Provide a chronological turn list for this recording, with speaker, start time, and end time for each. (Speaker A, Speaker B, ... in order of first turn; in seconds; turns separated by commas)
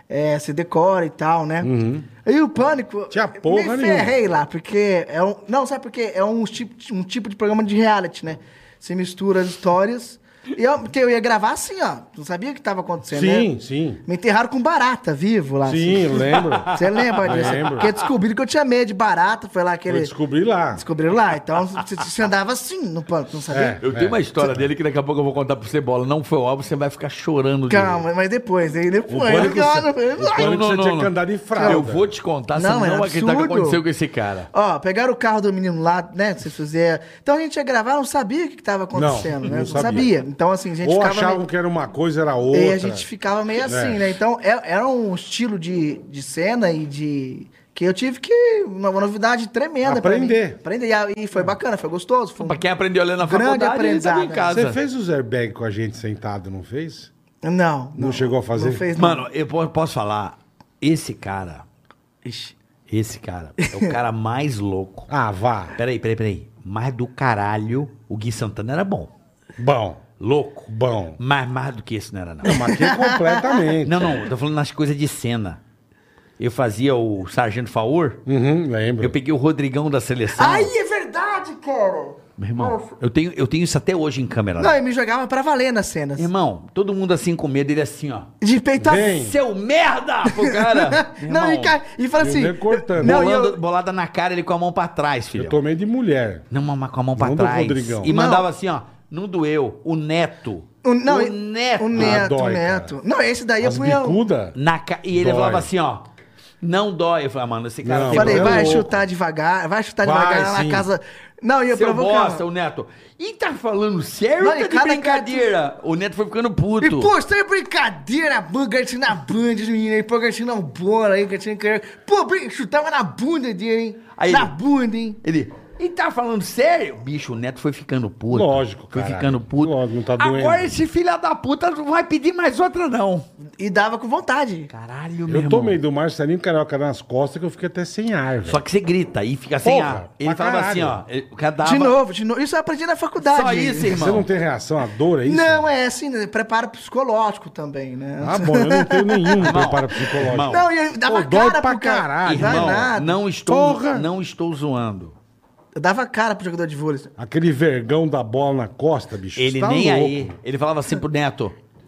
Speaker A: 0.1-1.7, Speaker B: 1.6-2.1, Speaker A: 2.2-13.5, Speaker B: 3.1-4.2, Speaker B: 13.1-14.0, Speaker A: 14.1-20.1, Speaker B: 15.6-17.9, Speaker C: 16.3-18.0, Speaker B: 19.9-20.8, Speaker A: 20.7-23.8, Speaker B: 23.5-24.6, Speaker C: 23.8-28.0, Speaker A: 27.7-30.6, Speaker B: 29.1-32.1, Speaker C: 30.3-31.1, Speaker A: 31.5-31.8, Speaker C: 31.6-34.5, Speaker A: 32.5-33.8, Speaker A: 34.5-41.4, Speaker B: 38.9-40.1, Speaker B: 40.8-43.1, Speaker A: 42.5-52.6, Speaker B: 43.6-44.1, Speaker B: 49.8-50.6, Speaker C: 52.4-54.8, Speaker A: 53.2-54.5, Speaker B: 54.5-57.1, Speaker A: 57.4-59.2, Speaker B: 58.0-58.8, Speaker C: 59.0-61.6, Speaker A: 62.2-62.5, Speaker C: 62.9-65.1, Speaker A: 63.6-63.9, Speaker B: 65.1-65.8, Speaker C: 65.8-69.1, Speaker B: 69.6-70.0, Speaker C: 70.2-72.6, Speaker B: 70.7-71.2, Speaker B: 72.4-74.2, Speaker A: 72.5-73.6, Speaker C: 73.8-75.6, Speaker C: 76.4-78.2, Speaker B: 78.2-79.1, Speaker C: 79.0-80.7, Speaker A: 80.3-82.9, Speaker C: 82.4-84.8, Speaker A: 84.6-86.3, Speaker C: 86.2-88.3, Speaker A: 88.4-89.1, Speaker B: 88.8-89.3, Speaker C: 88.9-91.8, Speaker A: 90.3-93.6, Speaker B: 92.2-93.2, Speaker C: 93.0-95.6, Speaker B: 95.3-96.5, Speaker C: 96.5-102.2, Speaker B: 97.2-98.1, Speaker A: 98.0-98.5, Speaker A: 100.8-104.2, Speaker B: 101.9-102.9, Speaker B: 103.6-104.5, Speaker C: 104.5-106.0, Speaker B: 105.1-105.7, Speaker C: 106.6-108.9, Speaker B: 107.8-108.9, Speaker A: 108.1-112.4, Speaker B: 110.0-110.9, Speaker C: 111.7-117.1, Speaker A: 114.4-115.5, Speaker A: 116.8-125.2, Speaker C: 124.2-124.5, Speaker C: 125.2-133.2, Speaker B: 128.3-130.8, Speaker A: 133.6-134.7, Speaker C: 134.7-135.8, Speaker B: 135.3-138.6, Speaker C: 138.4-141.9, Speaker B: 139.6-141.0, Speaker A: 141.6-143.9, Speaker C: 143.2-144.2, Speaker B: 143.9-145.7, Speaker A: 145.3-153.2, Speaker B: 148.2-152.9, Speaker C: 149.4-150.7, Speaker C: 152.2-155.1, Speaker B: 153.4-154.1, Speaker A: 155.7-157.1, Speaker B: 157.2-160.3, Speaker C: 159.3-161.6